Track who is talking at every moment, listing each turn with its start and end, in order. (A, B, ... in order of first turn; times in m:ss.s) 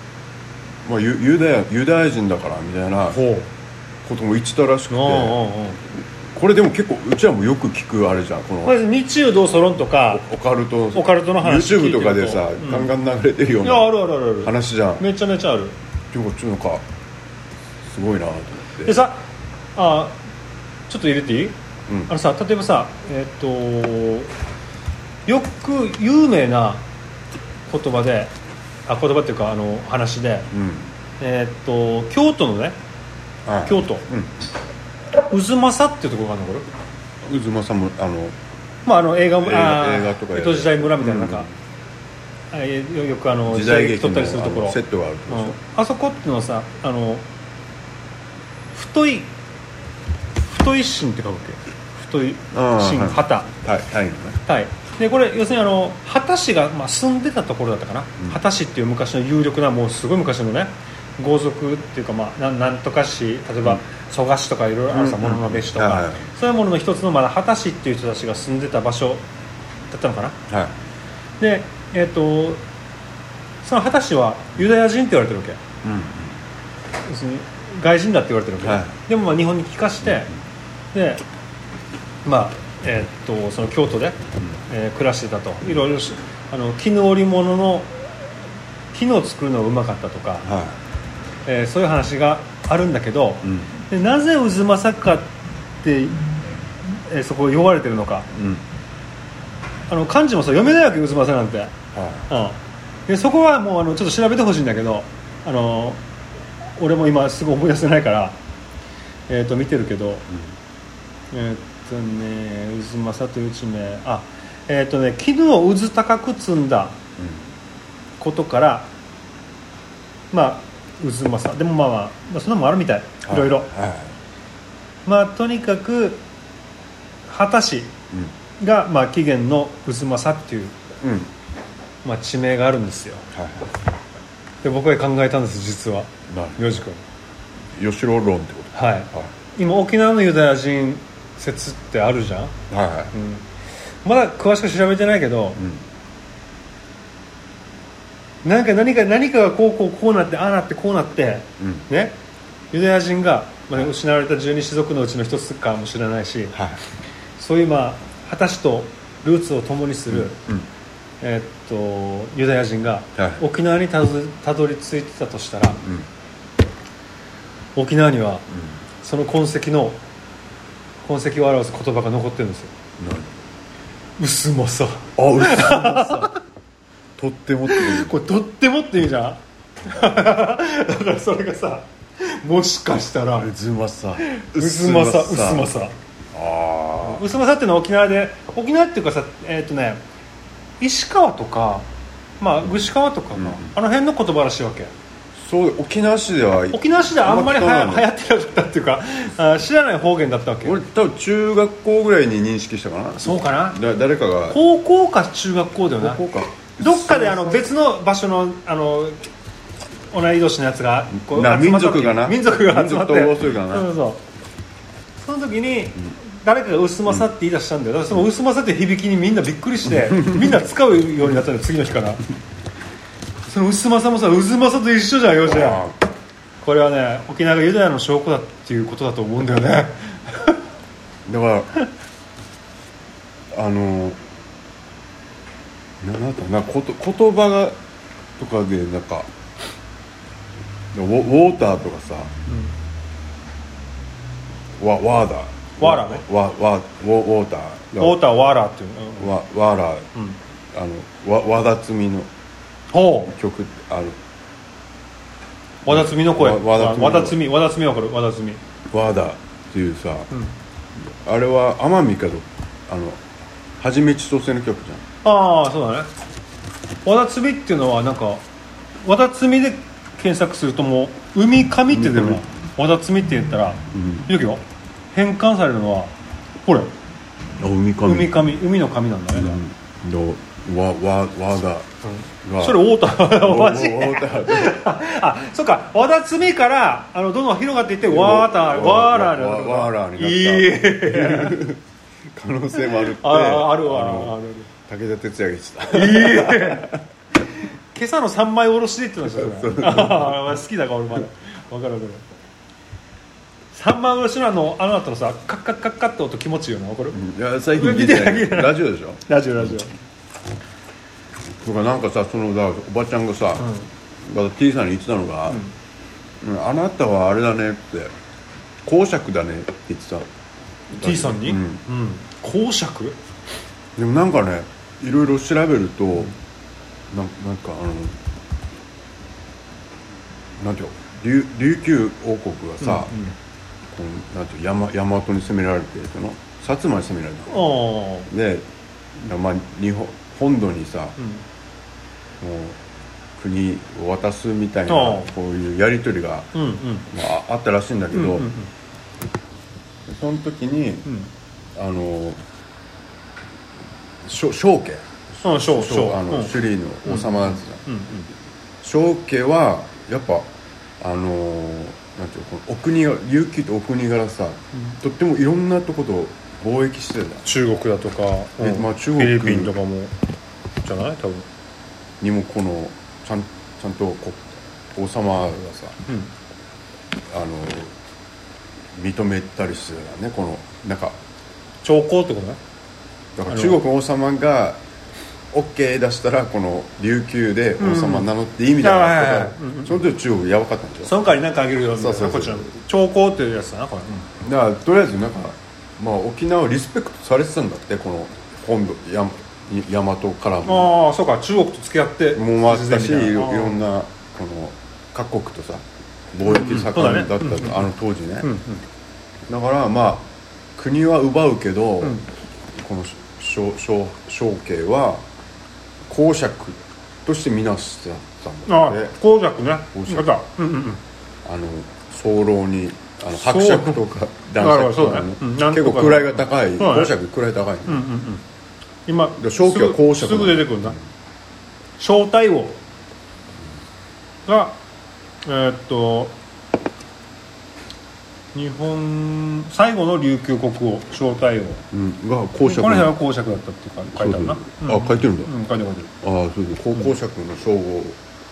0:00.8-0:03.2 A
0:03.1-0:03.5 B
0:04.0-0:05.4 A
0:04.9-0:05.8 B
0:06.3-0:08.8 A
0:08.6-0:10.2 B
0:10.1-0:15.0 A
0:10.9-0:12.9 B
0:13.6-0:15.8 B
0:16.1-0:16.8 A
0:17.9-0:19.0 A
0:18.8-0:20.2 B
0:20.9-0:24.3 B
0:21.9-0:22.1 A
0:25.3-0:26.9 B
0:27.7-0:28.3 B
0:28.9-0:30.5 B
0:30.5-0:30.9 A
0:31.2-0:32.8 B
0:33.5-0:34.3 A
0:33.6-0:34.1 B
0:35.3-0:36.7 B
0:37.2-0:38.4 A
0:38.8-0:41.5 B
0:39.4-0:41.5 A
0:42.5-0:47.3 B
0:43.5-0:45.6 A
0:48.7-0:49.3 B
0:50.5-0:53.5 B
0:52.5-0:54.4 A
0:54.5-1:09.2 B
1:04.9-1:06.3 A
1:09.9-1:10.4 B
1:10.5-1:10.7 A
1:11.4-1:12.6 B
1:13.6-1:15.6 B
1:15.8-1:16.4 A
1:17.0-1:20.3 B
1:18.6-1:19.0 A
1:20.9-1:21.2 B
1:22.2-1:28.0 B
1:28.9-1:30.5 B
1:30.4-1:30.8 A
1:31.5-1:38.3 B
1:33.4-1:33.7 A
1:38.3-1:38.6 A
1:39.9-1:41.8 B
1:41.9-1:42.3 A
1:42.3-1:46.0 B
1:46.8-1:48.4 B
1:49.3-1:50.3 B
1:50.3-1:50.6 A
1:51.3-1:57.0 B
1:57.2-1:57.5 A
1:58.2-1:58.9 B
2:00.3-2:03.7 B
2:03.2-2:04.1 A
2:05.0-2:06.2 B
2:07.3-2:07.9 B
2:08.6-2:10.8 B
2:11.0-2:11.3 A
2:12.0-2:13.3 B
2:13.3-2:13.7 A
2:14.6-2:17.0 B
2:16.3-2:16.7 A
2:17.7-2:19.3 A
2:18.7-2:22.6 B
2:22.7-2:23.1 A
2:23.1-2:23.5 B
2:24.0-2:25.6 B
2:25.6-2:25.8 A
2:28.4-2:32.2 B
2:31.6-2:31.8 A
2:32.7-2:36.6 B
2:36.5-2:36.8 A
2:37.4-2:40.4 B
2:40.1-2:40.7 A
2:41.2-2:45.8 B
2:43.2-2:43.4 A
2:47.8-2:48.5 B
2:48.5-2:48.8 A
2:49.0-2:50.0 B
2:51.0-2:52.7 B
2:53.0-2:53.3 A
2:54.2-2:56.3 B
2:55.2-2:56.4 A
2:57.2-2:58.2 A
2:57.7-3:03.5 B
3:03.4-3:05.8 A
3:04.2-3:05.9 B
3:06.3-3:07.2 A
3:07.0-3:10.0 B
3:10.8-3:11.9 B
3:12.4-3:14.9 B
3:13.4-3:13.7 A
3:15.4-3:18.1 A
3:16.7-3:20.8 B
3:20.6-3:24.6 A
3:23.2-3:23.8 B
3:24.5-3:26.2 B
3:26.0-3:27.7 A
3:26.8-3:29.2 B
3:30.1-3:34.2 B
3:31.2-3:33.9 A
3:35.2-3:42.2 B
3:39.9-3:40.6 A
3:43.5-3:45.8 B
3:45.4-3:46.0 A
3:46.6-3:50.6 B
3:51.3-3:51.7 A
3:53.5-3:54.2 A
3:56.0-3:57.8 A
3:58.4-3:59.3 A
4:00.9-4:02.3 A
4:04.8-4:08.2 A
4:05.8-4:06.2 B
4:08.0-4:09.3 B
4:09.2-4:10.1 A
4:10.7-4:12.3 A
4:12.9-4:13.3 B
4:13.3-4:14.2 A
4:15.8-4:17.4 A
4:15.9-4:18.6 B
4:18.9-4:20.3 A
4:21.0-4:23.2 A
4:23.8-4:25.0 A
4:25.2-4:26.1 B
4:27.0-4:28.4 B
4:29.0-4:36.1 B
4:31.9-4:32.4 A
4:33.9-4:34.3 A
4:36.6-4:36.9 B
4:37.6-4:38.4 A
4:38.0-4:39.6 B
4:39.3-4:41.9 A
4:42.0-4:51.6 B
4:42.4-4:44.8 A
4:48.0-4:51.8 A
4:52.3-4:57.0 A
4:53.0-4:54.7 B
4:55.9-4:57.0 B
4:57.6-5:02.2 B
4:59.3-5:00.5 A
5:03.7-5:07.2 B
5:07.1-5:09.8 A
5:07.7-5:09.9 B
5:11.6-5:13.7 A
5:13.6-5:13.9 B
5:14.2-5:15.6 A
5:16.4-5:18.1 A
5:18.8-5:20.3 A
5:20.9-5:21.8 A
5:20.9-5:23.2 B
5:24.0-5:26.3 A
5:27.1-5:28.2 A
5:30.6-5:33.2 A
5:32.8-5:33.4 B
5:33.9-5:37.7 A
5:37.5-5:38.3 B
5:38.3-5:41.2 A
5:41.2-5:41.4 B
5:42.4-5:42.8 A
5:43.4-5:46.5 A
5:44.9-5:45.3 B
5:46.5-5:47.1 B
5:47.1-5:48.5 A
5:48.1-5:48.7 B
5:50.1-5:51.1 A
5:51.8-5:52.4 A
5:54.2-5:57.8 A
5:55.4-5:56.6 B
5:57.1-5:58.3 B
5:58.8-6:00.5 A
6:01.0-6:07.4 A
6:07.4-6:10.1 B
6:08.6-6:09.8 A
6:10.8-6:11.5 B
6:12.2-6:16.0 A
6:17.3-6:17.9 A
6:18.9-6:21.2 A
6:21.8-6:22.6 B
6:23.4-6:24.8 A
6:23.5-6:23.8 B
6:25.5-6:31.1 A
6:27.8-6:30.0 B
6:31.0-6:34.3 B
6:31.9-6:32.7 A
6:34.4-6:40.9 A
6:40.6-6:43.8 B
6:42.4-6:48.5 A
6:46.4-6:47.8 B
6:48.4-6:48.8 B
6:49.5-6:52.2 A
6:52.7-6:55.2 A
6:56.1-6:59.2 A
6:58.7-7:01.0 B
6:59.9-7:00.3 A
7:01.4-7:08.0 A
7:03.3-7:04.0 B
7:04.6-7:07.1 B
7:07.9-7:08.4 B
7:09.1-7:11.0 B
7:09.4-7:11.0 A
7:12.0-7:12.8 B
7:14.5-7:14.8 B
7:15.4-7:16.4 B
7:18.5-7:21.8 B
7:21.9-7:23.2 A
7:22.6-7:26.1 B
7:24.1-7:25.5 A
7:26.2-7:28.2 A